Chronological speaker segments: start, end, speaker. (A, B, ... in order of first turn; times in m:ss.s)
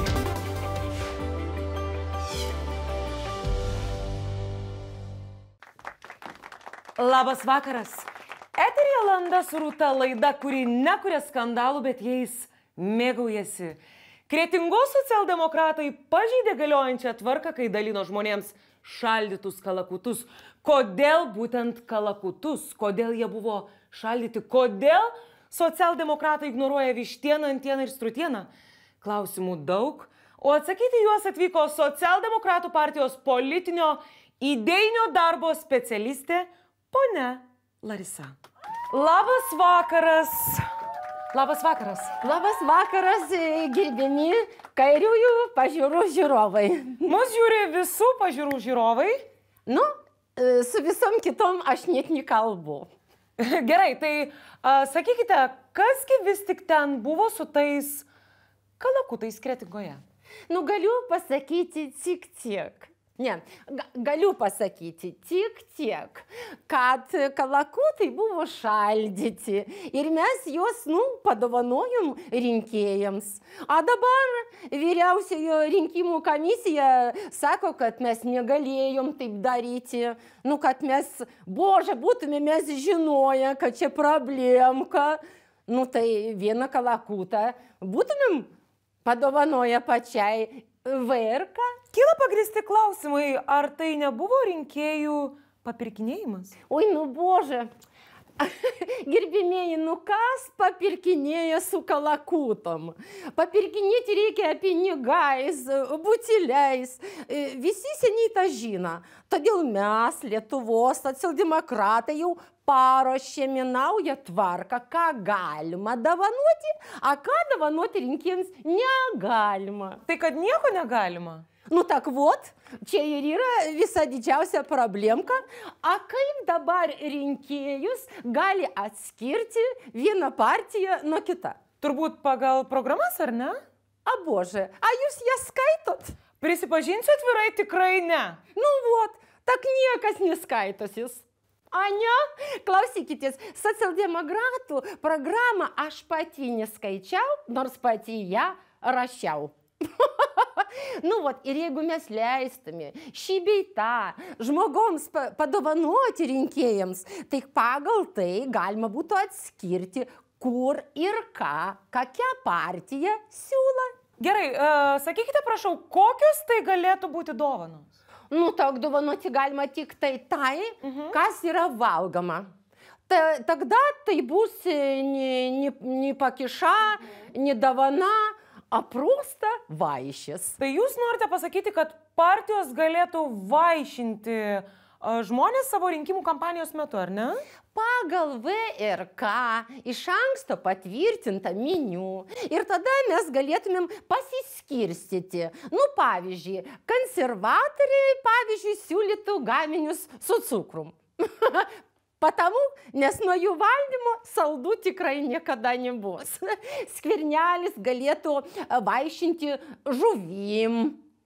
0:07.0-0:28.5 A
0:29.0-0:38.4 A
0:38.9-0:40.7 A
0:41.3-0:42.2 A
0:42.2-0:47.1 B
0:47.1-0:49.2 A
0:49.7-0:52.9 B
0:53.4-0:58.1 A
0:58.8-1:00.0 A
1:00.5-1:28.5 B
1:29.0-1:31.8 B
1:31.9-1:36.5 A
1:36.7-1:37.7 B
1:38.4-2:00.0 B
2:00.1-2:01.4 A
2:01.7-2:11.6 B
2:11.8-2:13.6 A
2:14.1-2:16.2 B
2:16.4-2:18.4 A
2:18.6-2:43.9 B
2:44.2-2:47.9 A
2:48.3-2:52.5 B
2:50.8-2:51.2 A
2:53.1-3:00.6 B
3:00.6-3:07.4 A
3:07.7-3:31.0 B